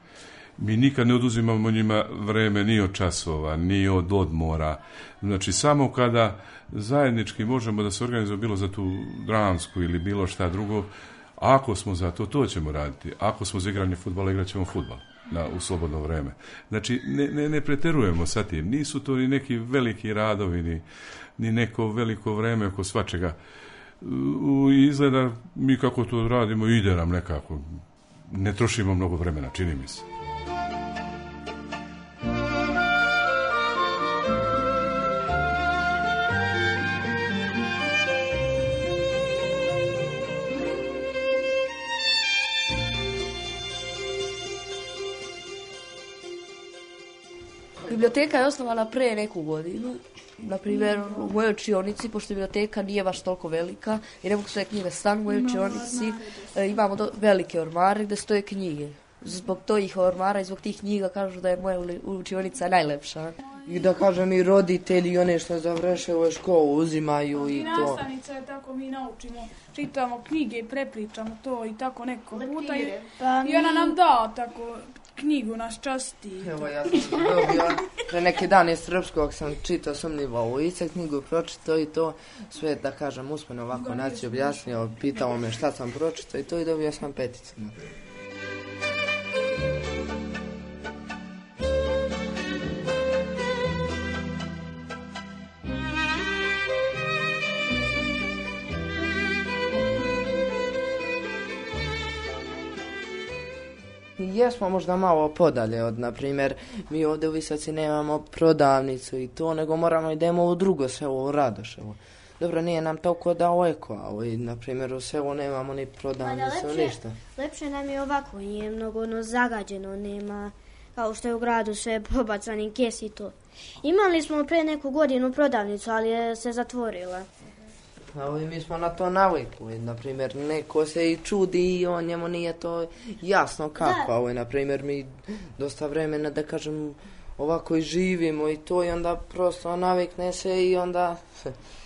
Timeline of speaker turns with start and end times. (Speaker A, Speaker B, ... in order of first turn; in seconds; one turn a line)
Speaker A: 0.6-20.8
Speaker A: 21.4-23.4
Speaker A: 24.0-30.1
Speaker B: 47.9-63.4
Speaker C: 50.7-51.3
Speaker C: 55.3-56.6
Speaker D: 63.6-68.0
Speaker C: 67.3-77.2
Speaker E: 73.2-74.0
Speaker D: 76.4-87.8
Speaker C: 83.7-84.6
Speaker D: 104.2-117.2
Speaker E: 116.2-127.2
Speaker D: 128.1-141.5
Speaker E: 133.8-134.1